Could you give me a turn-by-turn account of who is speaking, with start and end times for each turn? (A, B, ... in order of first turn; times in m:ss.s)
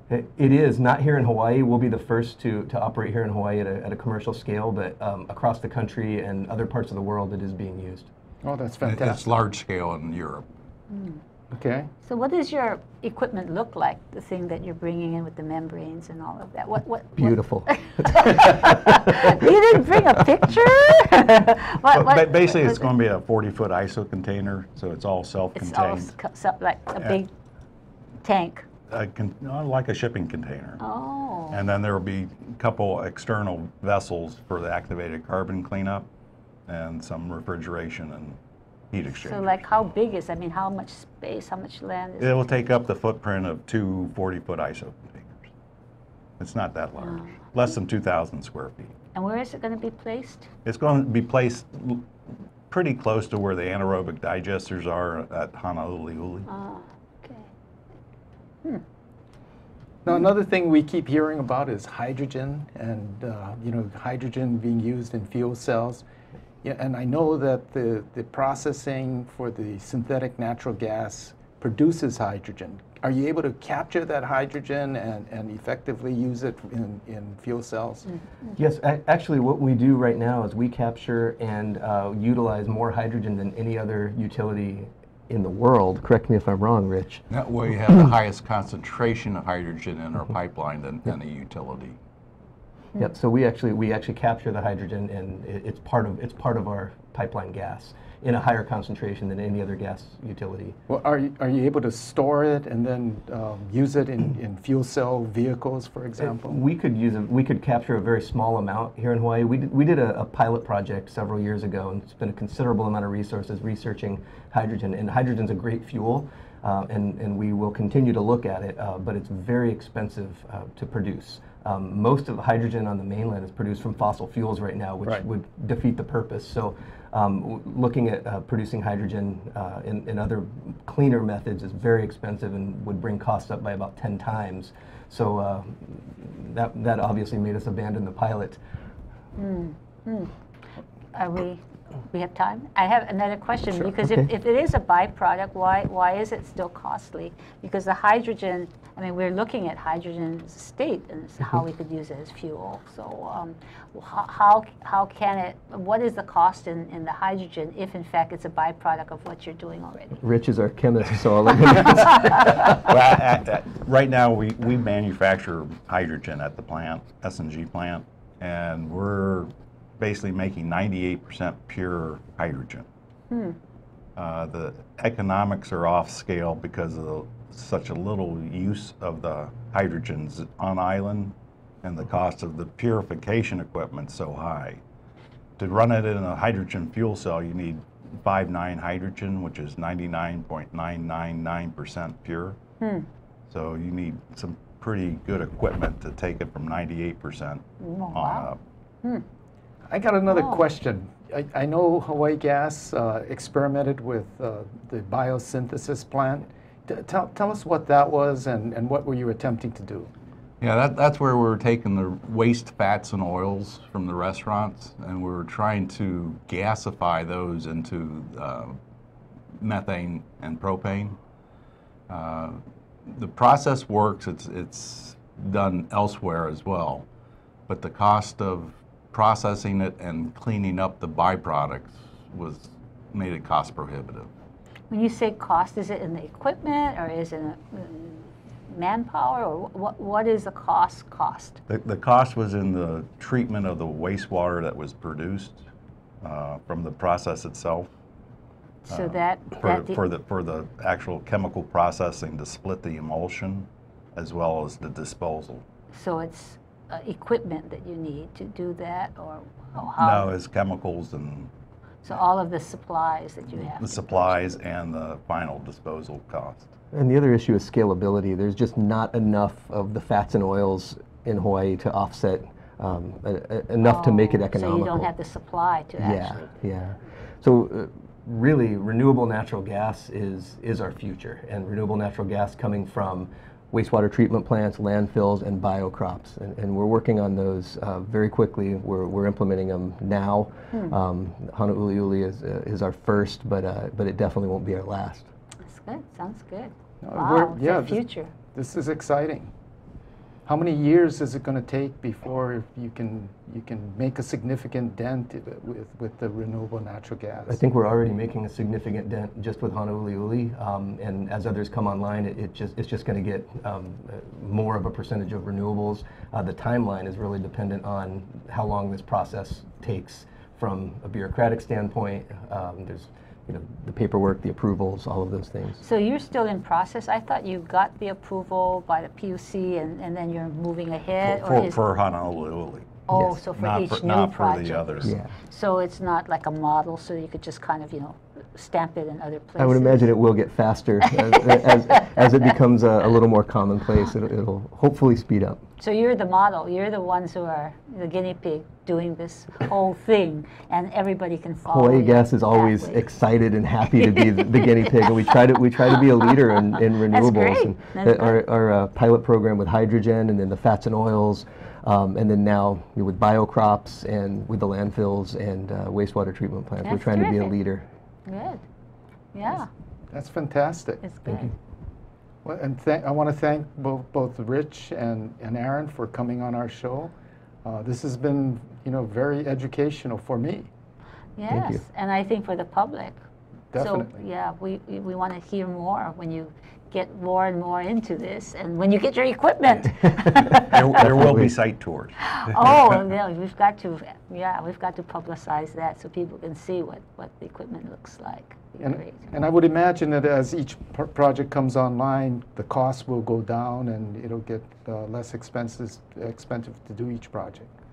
0:00.1-0:08.1 A
0:08.4-0:09.2 B
0:08.8-0:10.4 C
0:10.9-0:11.2 D
0:11.5-0:11.9 B
0:12.0-0:22.9 D
0:17.2-0:19.3 A
0:21.9-0:26.1 C
0:25.5-0:27.3 D
0:28.2-0:28.6 D
0:28.9-0:30.8 C
0:30.8-0:31.6 D
0:31.5-0:36.1 C
0:36.7-0:38.4 C
0:38.9-0:39.6 C
0:39.1-0:42.4 D
0:42.2-0:45.5 C
0:46.4-0:48.9 C
0:47.0-0:47.3 D
0:49.1-0:50.5 D
0:50.6-0:52.1 C
0:52.7-0:56.5 C
0:56.5-0:57.5 D
1:00.0-1:06.0 B
1:06.6-1:18.1 B
1:18.6-1:27.2 A
1:27.3-1:32.0 C
1:33.0-1:40.8 A
1:40.9-1:46.6 B
1:46.2-2:18.6 A
2:19.4-2:20.3 D
2:21.1-2:40.2 D
2:40.2-2:42.6 A
2:42.7-2:52.9 C
2:53.3-2:53.6 D
2:54.2-3:04.8 C
3:05.6-3:12.6 C
3:12.8-3:13.1 D
3:13.5-3:18.6 C
3:17.8-3:18.5 D
3:19.9-3:30.1 B
3:20.3-3:20.6 D
3:30.6-3:38.8 C
3:39.6-3:41.2 C
3:42.1-3:47.0 C
3:47.7-3:54.3 C
3:54.9-4:01.6 D
4:01.7-4:05.6 C
4:06.2-4:07.9 C
4:08.9-4:15.6 C
4:08.9-4:10.0 D
4:15.9-4:20.3 D
4:20.0-4:21.5 C
4:22.0-4:24.4 D
4:23.8-4:26.7 C
4:26.9-4:35.1 A
4:33.8-4:36.5 D
4:36.0-4:55.3 A
4:55.6-4:58.3 D
4:57.0-4:59.5 B
5:00.4-5:07.6 B
5:07.5-5:25.8 A
5:25.8-5:31.8 D
5:31.2-5:35.1 C
5:33.1-5:40.1 D
5:35.0-5:35.3 A
5:39.6-5:45.6 A
5:41.5-5:42.5 D
5:45.8-5:53.0 D
5:51.7-6:07.8 A
5:53.9-5:55.1 D
5:57.1-5:58.4 D
6:06.8-6:07.6 D
6:08.2-6:08.6 D
6:09.3-6:09.7 D
6:10.1-6:11.0 B
6:11.0-6:11.5 D
6:12.4-6:17.1 B
6:17.6-6:20.7 B
6:21.4-6:23.2 D
6:21.5-6:21.8 A
6:23.7-6:24.2 B
6:23.8-6:30.9 D
6:30.1-6:31.5 A
6:30.6-6:32.1 C
6:32.2-6:39.3 D
6:38.8-6:47.7 B